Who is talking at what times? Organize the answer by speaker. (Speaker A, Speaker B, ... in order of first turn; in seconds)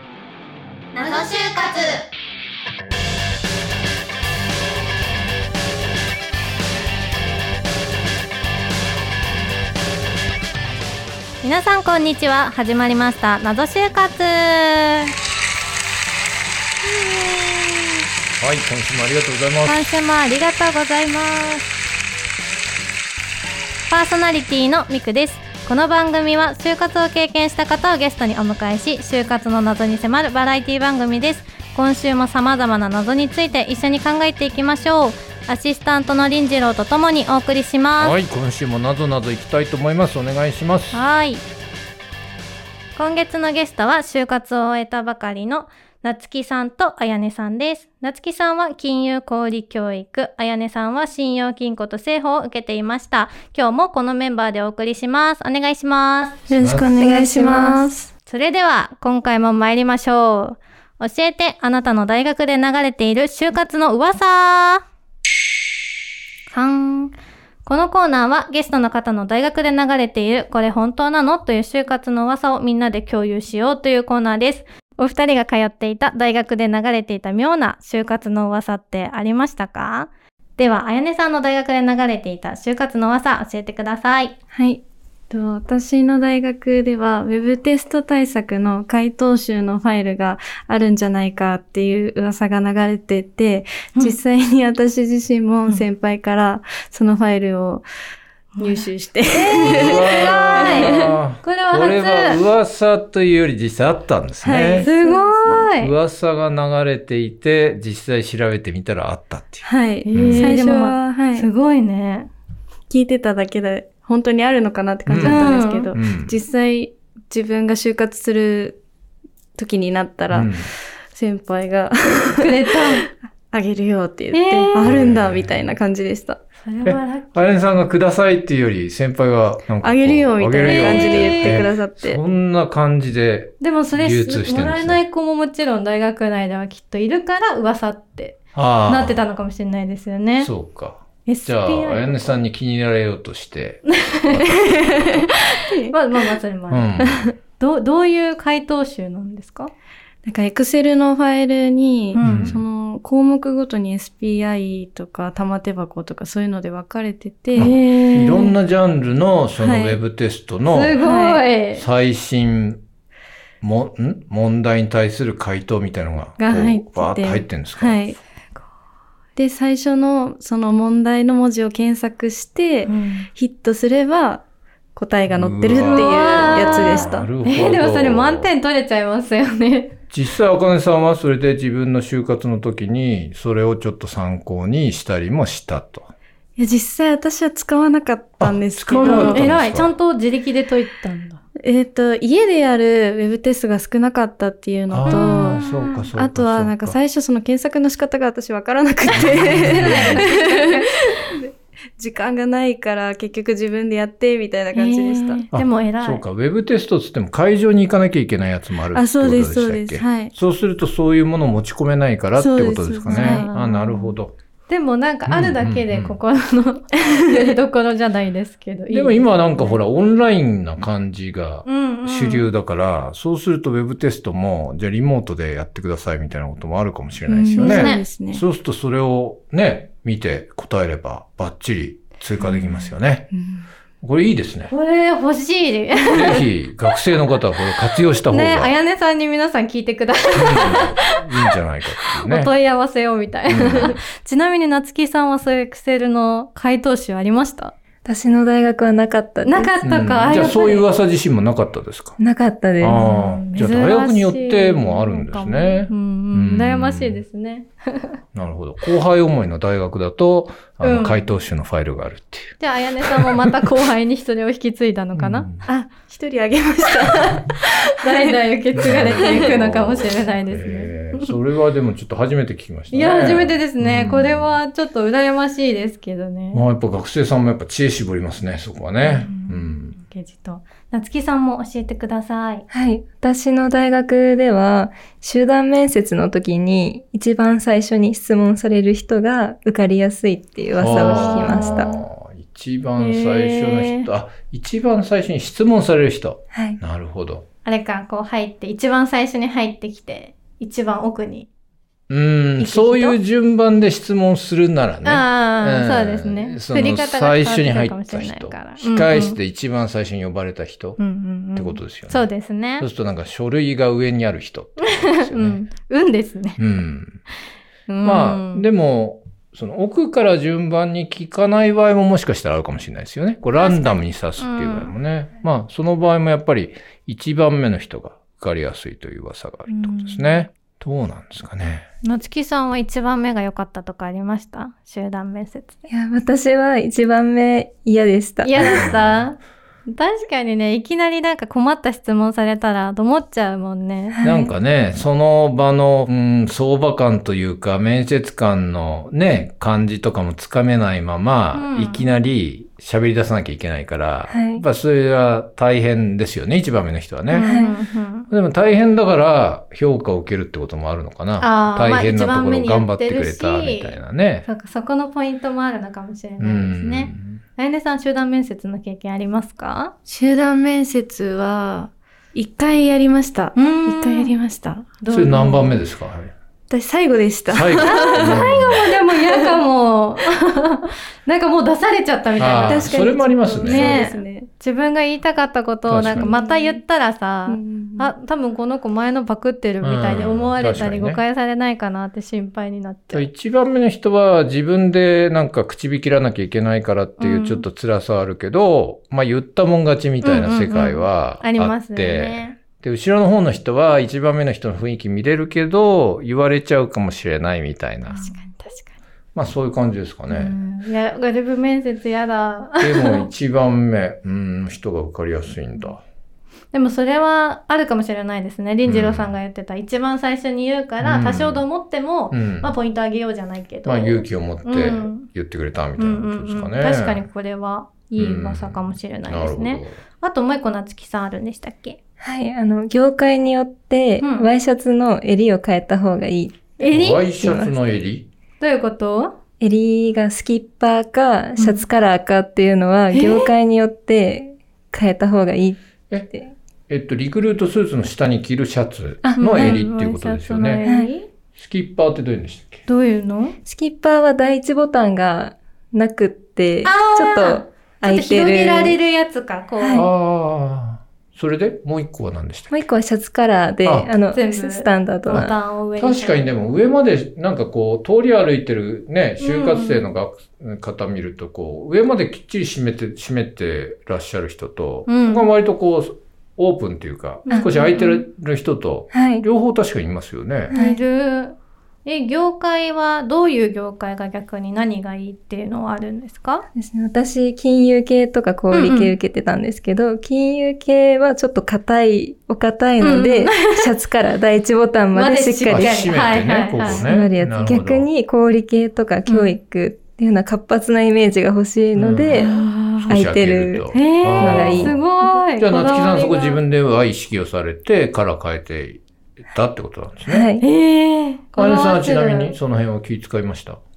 Speaker A: 0.9-2.0, 11.4-15.1, 16.8-18.0, 19.6-21.7, 23.9-38.1, 40.9-41.4, 43.0-56.4, 58.2-64.8, 66.5-84.3, 98.6-102.4, 104.8-105.9, 110.0-112.3, 115.1-115.9, 122.4-123.1, 124.3-124.8, 126.6-127.5, 130.6-131.6, 133.6-140.5, 141.2-142.4, 143.9-146.9, 147.6-149.7, 152.1-152.5, 157.6-158.5, 160.7-161.8, 172.8-173.3, 175.8-179.9, 189.0-191.4, 195.0-196.0, 199.4-201.0, 204.7-206.2, 213.1-214.2, 214.7-219.8, 221.7-222.5, 227.6-228.0, 234.7-236.4, 238.3-241.5, 242.2-247.7, 249.4-250.9, 252.9-258.2, 260.8-261.2, 262.6-265.5, 267.6-271.3, 272.9-276.6, 279.0-282.6, 290.9-292.0, 293.0-294.1, 297.6-301.5, 302.6-303.2, 305.0-309.4, 311.0-312.9, 314.8-316.6, 317.9-318.7, 323.5-324.9, 329.7-330.4, 332.0-335.8, 338.4-344.2, 351.5-352.1, 357.3-358.3, 361.4-369.9, 373.5-374.4, 375.0-375.8, 377.8-383.0, 383.6-393.3, 397.2-397.6, 400.2-402.6, 408.0-409.0, 410.3-413.3, 416.7-425.3, 426.0-432.0, 434.2-434.5, 436.8-437.2, 438.6-439.4, 441.6-441.9, 443.1-443.5, 449.4-451.3, 452.9-453.6, 456.8-460.1, 464.3-466.5, 469.4-470.1, 475.1-475.5, 477.4-478.2, 480.7-486.6, 488.7-489.1, 493.0-493.9, 495.1-497.1, 499.2-499.5, 502.3-503.2, 503.9-506.6, 510.6-512.5
Speaker B: 18.4-19.7, 38.0-41.0, 56.6-56.9, 99.6-104.9, 105.8-110.5, 115.1-116.4, 120.3-120.6, 124.8-125.6, 126.8-135.0, 138.5-139.2, 140.4-145.2, 146.7-147.3, 152.2-152.6, 157.6-161.1, 161.7-162.8, 163.6-168.0, 175.3-178.5, 180.1-186.1, 188.4-189.9, 194.9-197.0, 199.2-200.2, 205.5-214.3, 215.3-216.2, 218.9-233.2, 234.0-234.7, 236.1-238.7, 240.3-242.5, 243.5-243.9, 249.8-252.2, 252.8-257.2, 258.3-263.5, 265.1-265.6, 268.8-274.6, 276.5-280.0, 290.8-297.4, 302.1-311.0, 311.5-312.3, 312.8-315.6, 316.6-317.2, 318.0-331.9, 338.6-339.2, 344.2-357.6, 358.3-364.5, 366.4-367.4, 375.1-376.3, 377.5-378.7, 382.4-384.0, 385.9-386.3, 389.8-391.2, 393.1-408.3, 409.3-410.5, 412.8-416.0, 418.9-419.4, 421.0-421.6, 422.3-422.7, 423.9-427.2, 428.1-429.9, 436.9-438.3, 446.9-450.8, 451.6-452.8, 459.9-462.8, 463.8-464.1, 465.3-480.7, 495.6-498.1, 501.9-502.4, 503.0-505.0, 505.6-510.5, 511.6-513.8
Speaker C: 56.5-58.1, 84.5-97.8, 98.6-101.1, 104.4-105.7, 109.6-111.5, 112.9-118.8, 119.6-120.6, 121.1-126.4, 129.8-132.2, 144.6-146.3, 147.0-147.3, 150.2-157.7, 159.6-160.0, 161.0-161.4, 166.4-168.2, 169.3-174.4, 174.9-177.3, 186.6-189.5, 191.6-195.6, 196.1-205.4, 208.9-210.3, 212.4-213.5, 227.3-228.4, 233.3-233.7, 265.6-269.5, 370.1-375.0, 376.7-379.5, 382.5-384.5, 386.0-386.8, 387.5-388.1
Speaker D: 56.9-57.9, 248.0-249.7, 252.2-253.1, 282.7-291.9, 296.5-296.8, 335.9-338.9, 344.1-344.5, 354.3-354.6, 357.4-357.8, 432.2-437.8, 439.6-445.8, 449.2-449.8, 450.8-451.1, 453.6-459.0, 459.8-460.1, 462.7-465.5, 479.1-479.4, 480.7-481.0, 486.8-496.0, 496.7-505.0, 510.2-510.6